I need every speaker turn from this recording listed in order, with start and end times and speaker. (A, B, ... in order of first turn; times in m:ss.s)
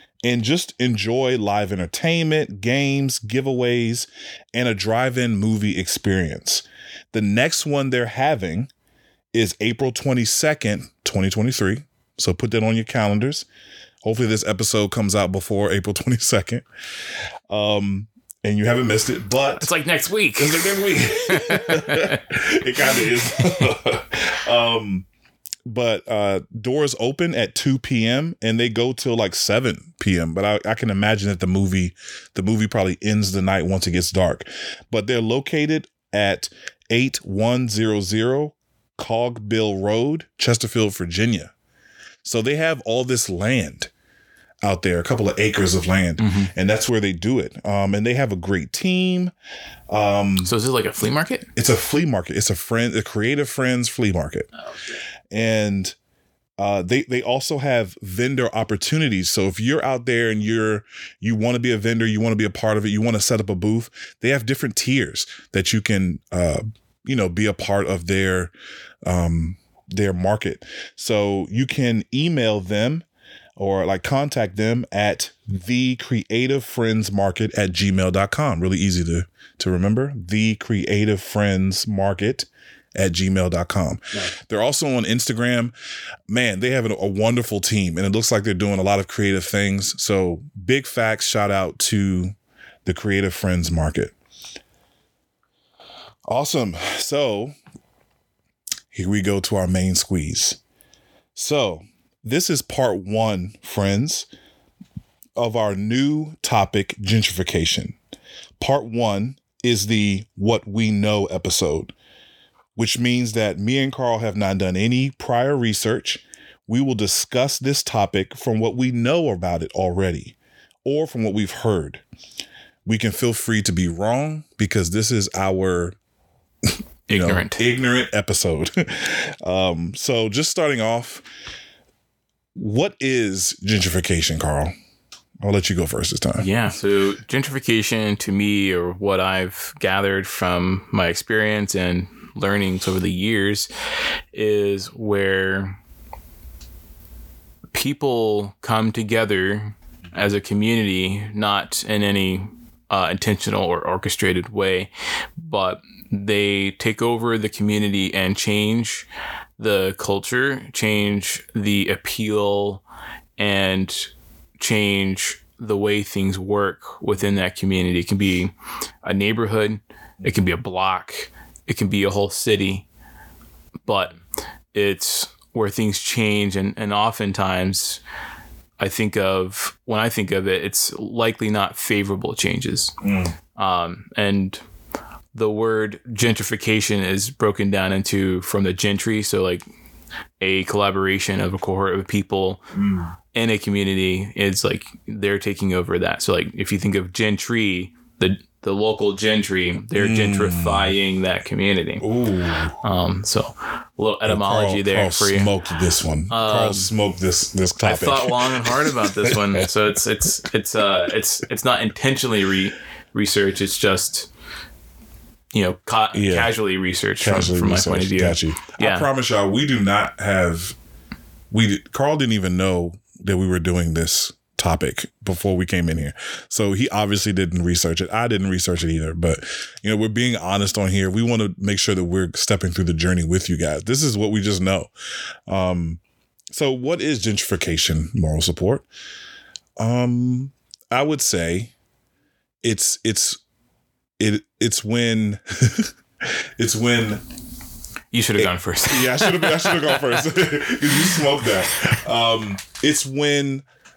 0:00.2-0:08.7 A
0:09.3-0:13.4 A
0:14.0-0:16.6 A
0:17.5-0:19.7 A
0:19.6-0:22.2 B
0:20.4-0:25.1 A
0:25.6-0:41.5 A
0:42.2-0:43.9 A
0:44.6-0:49.3 A
0:46.2-0:46.5 B
0:49.9-0:50.5 A
0:50.4-0:51.5 B
0:51.5-0:54.5 A
0:54.6-0:55.0 B
0:55.3-0:56.0 A
0:56.6-1:08.5 A
1:09.0-1:13.0 A
1:13.6-1:25.7 A
1:26.3-1:34.1 A
1:36.3-1:37.5 A
1:38.9-1:40.6 A
1:41.3-1:44.3 A
1:45.4-1:48.0 A
1:48.6-1:51.9 A
1:52.8-2:02.0 A
2:02.8-2:06.0 A
2:07.1-2:07.6 B
2:07.1-2:11.2 A
2:12.5-2:14.7 A
2:15.4-2:16.5 A
2:16.4-2:23.7 B
2:24.3-2:25.8 B
2:27.7-2:39.1 B
2:39.6-2:42.8 B
2:43.4-2:52.8 B
2:53.8-2:54.2 B
2:54.7-2:58.0 B
2:58.8-3:02.9 B
3:03.0-3:03.3 A
3:03.5-3:04.6 B
3:05.3-3:09.6 B
3:10.4-3:12.6 B
3:12.7-3:13.1 A
3:13.3-3:22.0 B
3:20.0-3:20.9 A
3:22.0-3:22.8 A
3:22.8-3:25.5 B
3:24.2-3:29.7 A
3:26.3-3:26.9 B
3:27.7-3:34.3 B
3:35.5-3:39.1 B
3:36.1-3:36.5 A
3:37.2-3:40.8 A
3:41.5-3:54.9 A
3:55.5-3:56.0 A
3:56.5-3:58.8 A
3:59.8-4:01.7 A
4:02.6-4:03.4 A
4:04.2-4:07.2 A
4:08.1-4:10.3 B
4:08.4-4:13.6 A
4:10.9-4:12.0 B